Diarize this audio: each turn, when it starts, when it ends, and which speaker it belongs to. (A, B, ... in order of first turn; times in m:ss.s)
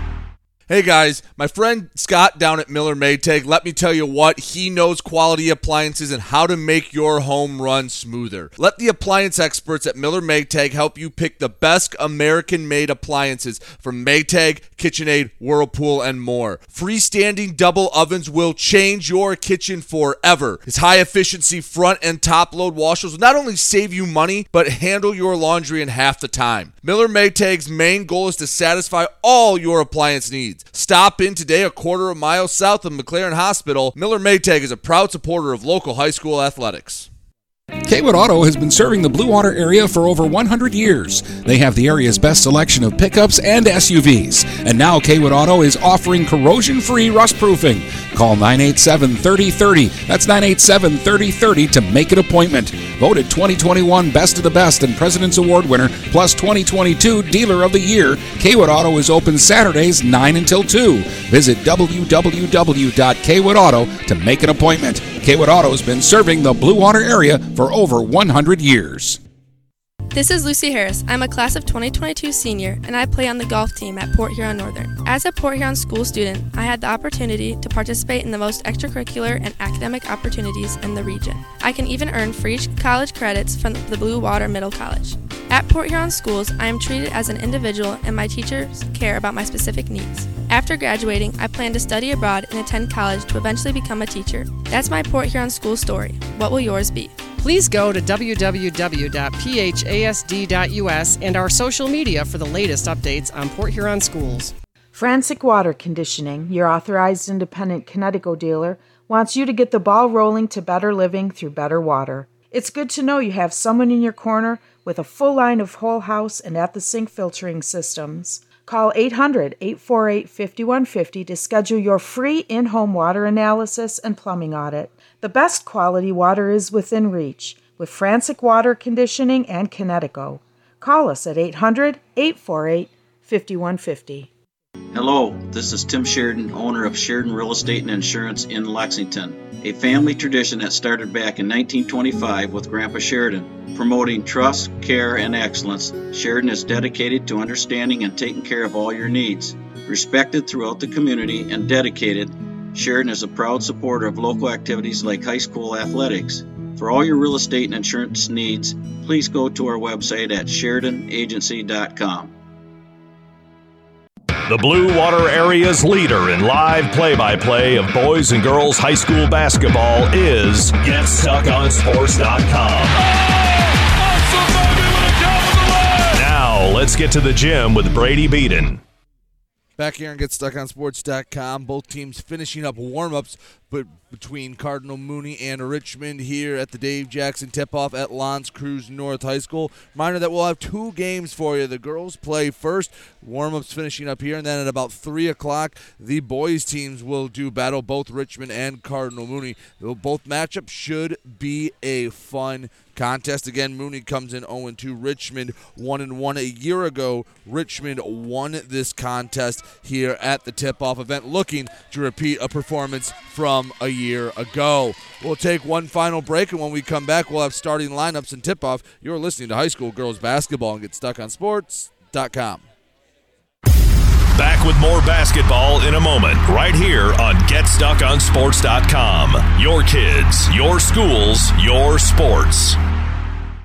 0:00.7-0:37.1 A
0:37.9-1:09.2 B
1:10.1-1:37.2 C
1:37.4-1:44.5 D
1:44.9-2:14.3 E
2:14.9-2:42.3 F
2:44.5-2:53.0 G
2:56.1-2:58.8 G
2:59.8-3:42.7 A
3:44.4-3:52.8 G